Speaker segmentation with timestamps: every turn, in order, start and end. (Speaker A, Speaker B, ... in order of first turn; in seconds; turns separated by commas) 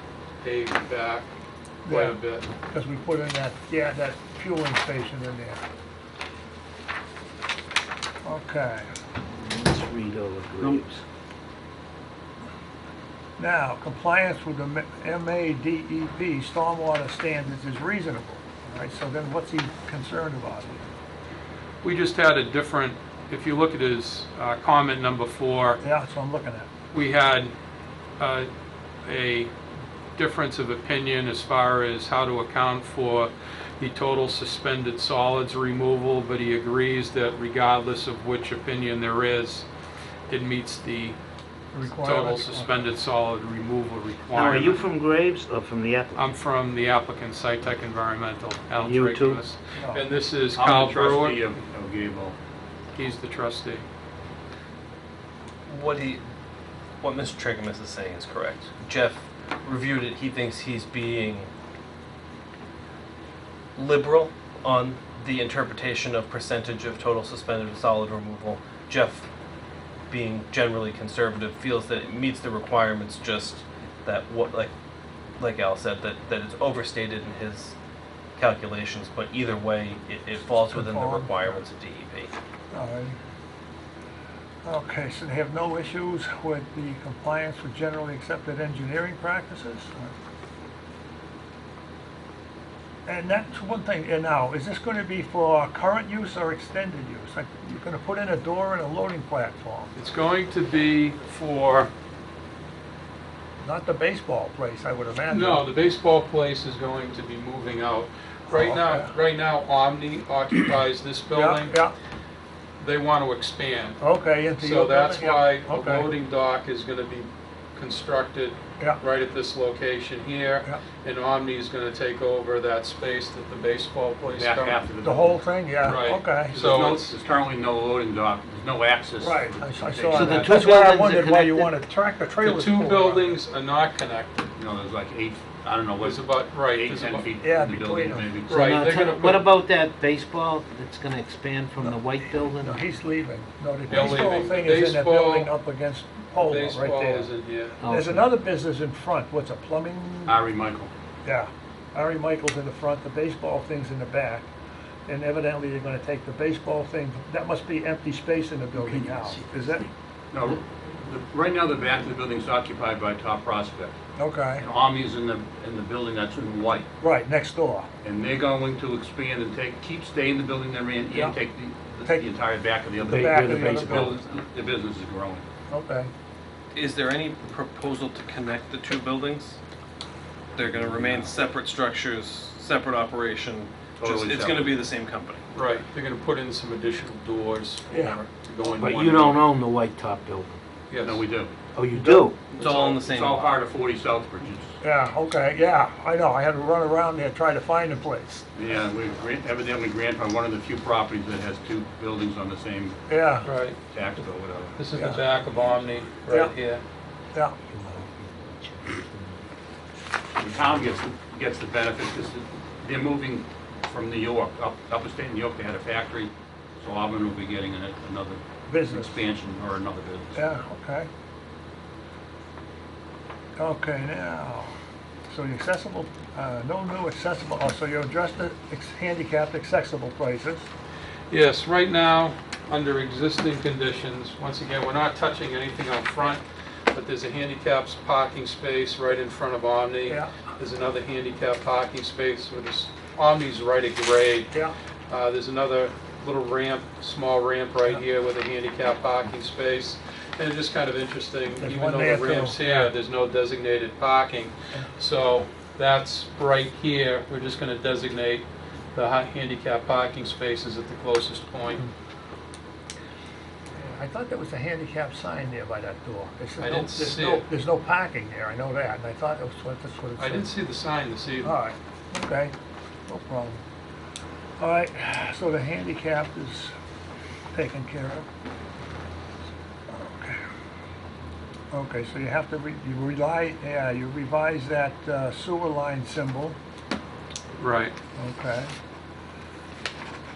Speaker A: 0.4-1.3, Speaker B: 1.9-2.2, Speaker A: 1.9-2.5, Speaker B: 2.7-5.6, Speaker B: 8.2-8.9, Speaker C: 9.5-11.0, Speaker B: 13.4-20.9, Speaker A: 21.8-25.8, Speaker B: 25.8-26.7, Speaker A: 26.9-27.5, Speaker A: 28.2-28.5, Speaker A: 29.1-29.5, Speaker A: 30.2-39.7, Speaker A: 40.3-41.2, Speaker B: 41.7-42.9, Speaker A: 41.9-44.8, Speaker C: 44.3-46.3, Speaker A: 46.1-51.4, Speaker C: 48.8-49.4, Speaker B: 49.8-50.1, Speaker D: 50.5-52.4, Speaker A: 53.0-53.9, Speaker E: 55.7-56.2, Speaker E: 57.0-61.5, Speaker E: 63.8-69.3, Speaker E: 70.1-74.7, Speaker E: 75.4-77.8, Speaker E: 78.4-82.3, Speaker B: 80.6-81.6, Speaker B: 82.7-83.2, Speaker B: 84.7-90.1, Speaker B: 93.1-99.9, Speaker A: 100.0-101.9, Speaker B: 103.6-105.7, Speaker A: 105.3-111.8, Speaker B: 108.5-109.1, Speaker B: 111.3-111.9, Speaker A: 112.8-114.0, Speaker B: 114.0-116.1, Speaker A: 114.6-124.8, Speaker D: 124.3-125.4, Speaker B: 125.0-126.6, Speaker A: 125.8-127.2, Speaker D: 126.5-130.5, Speaker B: 129.2-133.4, Speaker C: 130.1-131.7, Speaker A: 132.4-134.5, Speaker D: 134.6-138.5, Speaker A: 136.0-137.3, Speaker B: 137.4-138.3, Speaker A: 138.5-139.5, Speaker C: 138.5-142.8, Speaker B: 142.6-147.3, Speaker A: 143.9-145.5, Speaker A: 146.4-147.8, Speaker C: 147.8-148.3, Speaker B: 147.8-150.4, Speaker D: 150.3-150.9, Speaker B: 151.2-154.5, Speaker B: 155.1-159.9, Speaker D: 158.8-159.3, Speaker D: 160.3-163.9, Speaker B: 164.2-164.7, Speaker D: 164.6-166.9, Speaker B: 167.0-167.9, Speaker D: 168.1-175.4, Speaker C: 173.0-174.2, Speaker B: 173.1-174.2, Speaker B: 175.7-176.1, Speaker E: 176.7-179.6, Speaker E: 180.6-185.4, Speaker D: 184.0-184.8, Speaker A: 185.5-189.4, Speaker B: 187.9-188.2, Speaker C: 188.7-190.5, Speaker A: 190.9-191.2, Speaker D: 191.2-191.5, Speaker C: 191.7-192.5, Speaker B: 191.9-192.3, Speaker E: 192.5-193.5, Speaker D: 192.6-194.8, Speaker B: 194.8-198.4, Speaker D: 198.6-203.0, Speaker B: 203.1-203.5, Speaker A: 203.4-203.8, Speaker D: 203.9-204.8, Speaker A: 204.8-206.8, Speaker B: 204.9-205.3, Speaker B: 206.3-206.5, Speaker B: 207.3-207.7, Speaker C: 207.7-209.4, Speaker D: 210.4-220.4, Speaker B: 218.7-219.2, Speaker B: 220.4-221.1, Speaker B: 223.6-224.8, Speaker B: 225.3-230.7, Speaker A: 231.3-236.4, Speaker A: 236.9-244.5, Speaker B: 240.0-240.3, Speaker A: 245.1-261.9, Speaker B: 251.6-252.9, Speaker B: 263.8-270.5, Speaker A: 266.6-267.5, Speaker A: 270.2-271.6, Speaker B: 271.4-272.5, Speaker B: 273.1-273.6, Speaker B: 274.6-276.7, Speaker B: 277.5-278.3, Speaker B: 279.9-280.4, Speaker B: 281.7-286.6, Speaker A: 287.6-287.9, Speaker B: 288.2-288.7